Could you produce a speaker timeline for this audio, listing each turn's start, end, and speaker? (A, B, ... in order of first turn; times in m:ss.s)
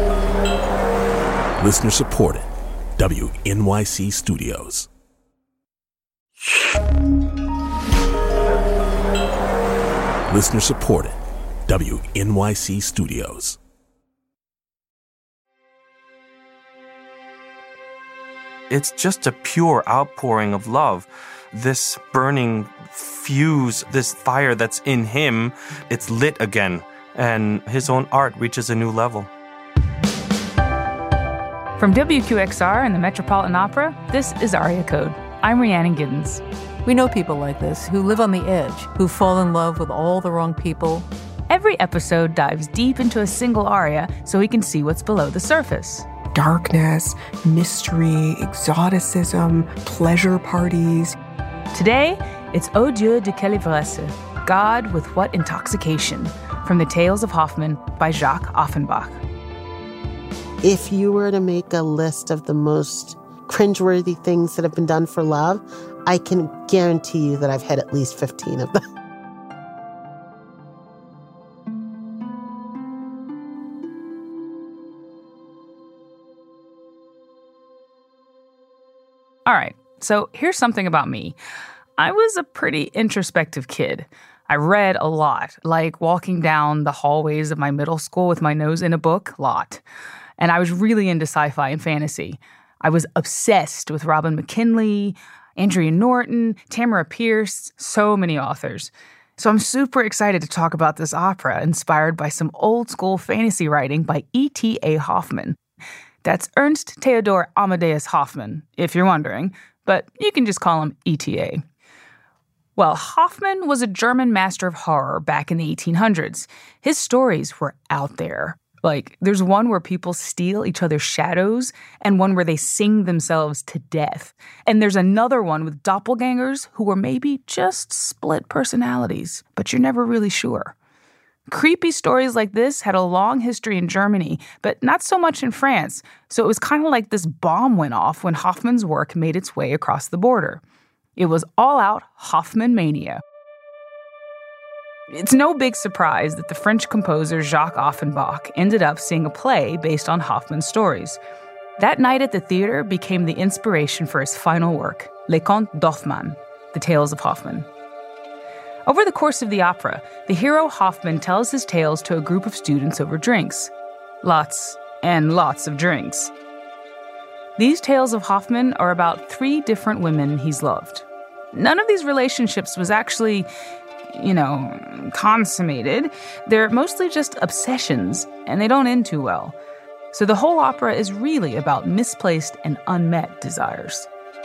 0:01.6-0:04.9 A
0:10.3-0:13.6 A
0:18.7-0:29.3 B
0:31.8-0:36.4 C
0:36.9-0:41.1 D
0:41.5-0:46.1 C
0:46.3-0:51.2 E
0:51.7-0:59.2 C
1:00.6-1:08.8 F
1:19.5-1:21.4 C
1:22.0-1:29.8 C
1:30.4-1:45.6 C
1:46.2-1:51.6 C
1:52.8-2:10.7 C
2:11.5-2:20.6 C
2:21.2-2:23.2 C
2:25.1-2:31.2 C
2:31.8-2:37.7 C
2:38.9-2:43.7 C
2:44.2-2:46.3 C
2:47.6-2:53.5 C
2:54.1-2:59.6 C
3:00.1-3:04.1 C